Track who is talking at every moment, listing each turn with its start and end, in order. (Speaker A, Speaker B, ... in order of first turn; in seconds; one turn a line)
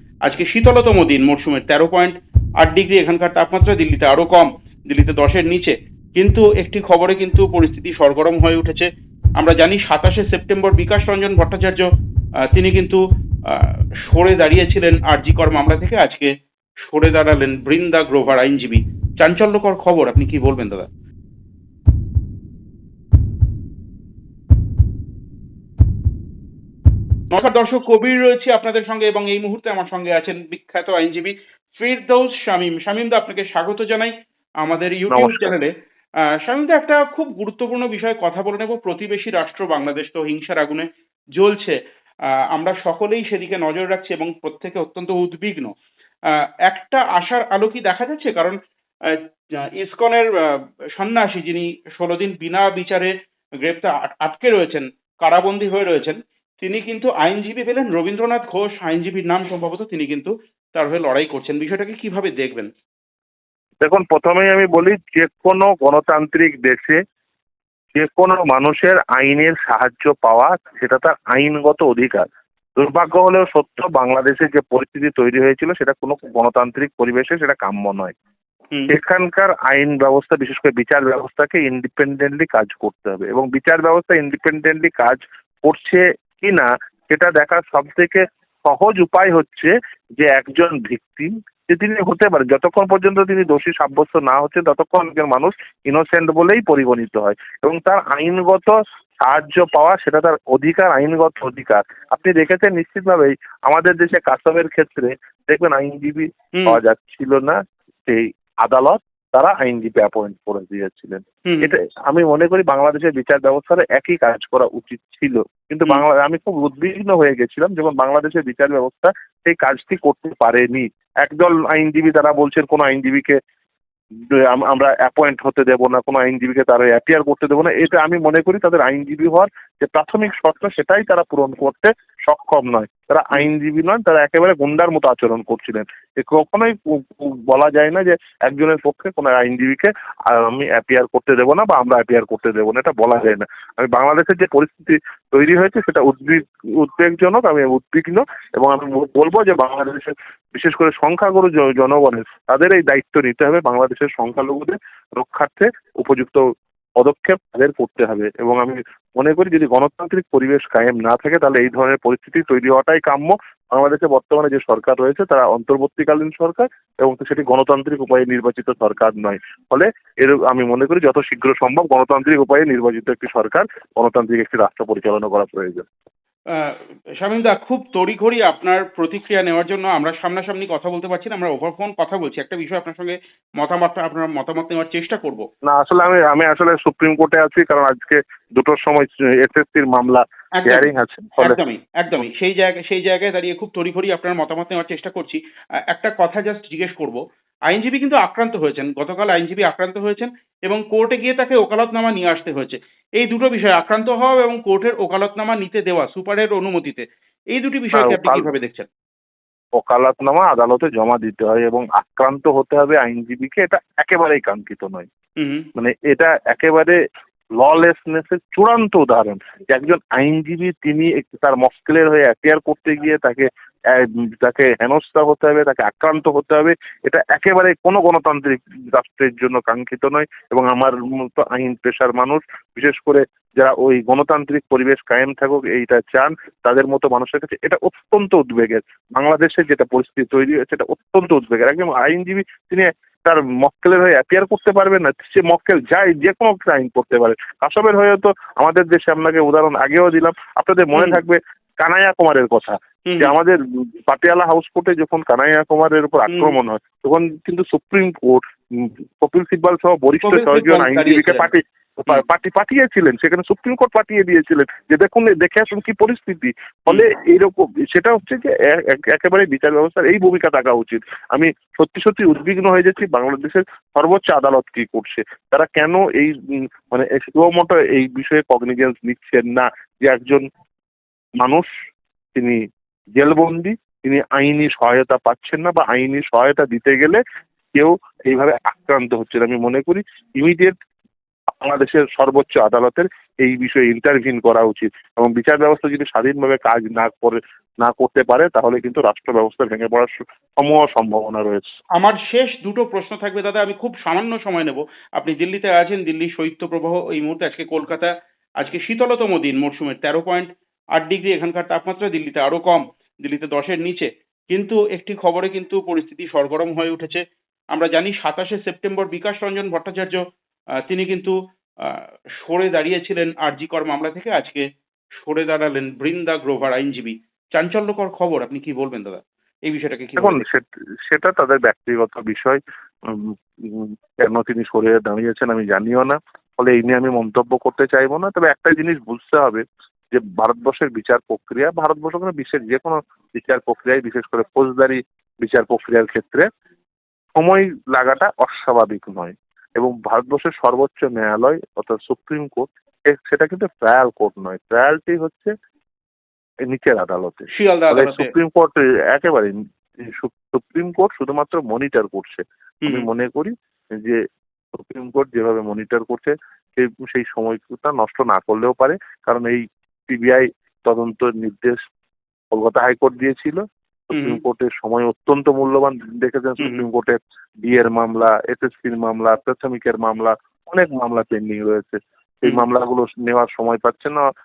Speaker A: 0.3-8.9
Speaker A: 9.4-11.9
Speaker A: 12.5-13.0
Speaker A: 13.5-16.3
Speaker A: 16.8-20.9
Speaker A: 27.3-34.1
Speaker A: 34.6-35.7
Speaker B: 35.1-35.6
Speaker A: 36.4-41.8
Speaker A: 42.5-45.7
Speaker A: 46.7-48.6
Speaker A: 49.8-53.1
Speaker A: 53.6-62.7
Speaker B: 63.8-67.0
Speaker B: 68.0-72.2
Speaker B: 72.8-78.2
Speaker B: 78.9-123.4
Speaker A: 111.5-111.7
Speaker B: 124.4-156.4
Speaker B: 157.0-175.8
Speaker A: 176.5-185.5
Speaker B: 185.7-191.6
Speaker A: 190.6-190.9
Speaker A: 191.4-195.4
Speaker A: 195.9-208.9
Speaker B: 207.9-208.5
Speaker B: 209.8-215.1
Speaker A: 215.4-215.7
Speaker B: 215.8-217.0
Speaker B: 217.6-253.6
Speaker A: 250.9-251.2
Speaker A: 253.1-253.3
Speaker B: 254.1-276.3
Speaker A: 256.3-256.6
Speaker A: 260.2-261.5
Speaker B: 276.9-280.4
Speaker B: 281.4-281.7
Speaker B: 283.2-287.2
Speaker B: 287.7-290.8
Speaker B: 291.6-301.7
Speaker A: 302.0-317.2
Speaker A: 317.7-320.2
Speaker A: 320.9-324.6
Speaker A: 325.2-330.4
Speaker B: 330.2-346.5
Speaker B: 347.4-355.5
Speaker B: 356.7-359.5
Speaker A: 357.5-358.3
Speaker B: 360.1-364.2
Speaker B: 364.8-371.8
Speaker B: 372.5-384.2
Speaker A: 374.1-374.4
Speaker A: 376.6-376.9